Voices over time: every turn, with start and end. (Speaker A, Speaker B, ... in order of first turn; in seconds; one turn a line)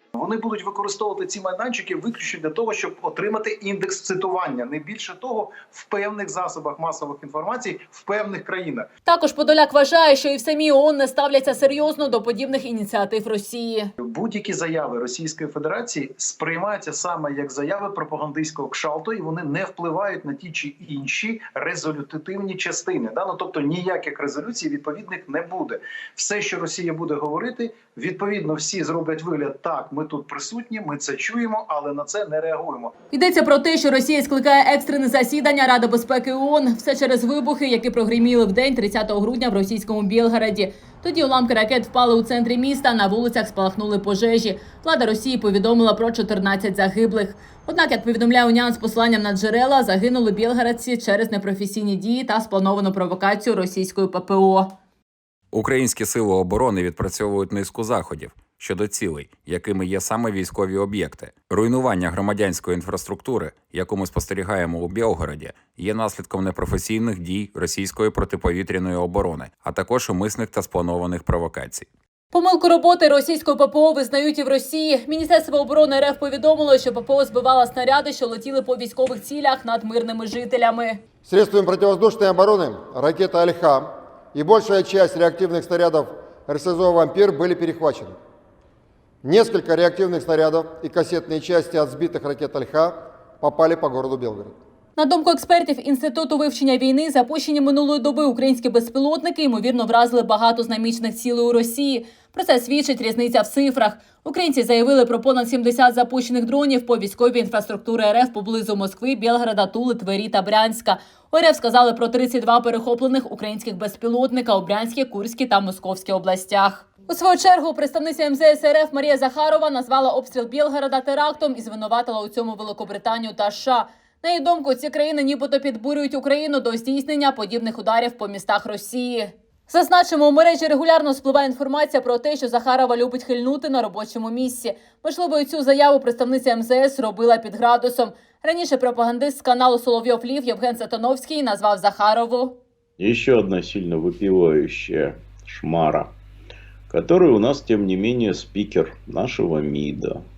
Speaker A: 0.1-8.9
Speaker B: 9.0-13.9
Speaker A: 14.0-32.9
Speaker B: 33.1-54.7
Speaker C: 55.5-71.9
Speaker B: 72.3-81.0
Speaker D: 81.2-88.2
Speaker D: 89.2-94.5
Speaker B: 95.0-142.6
Speaker E: 143.0-146.1
Speaker E: 146.9-150.2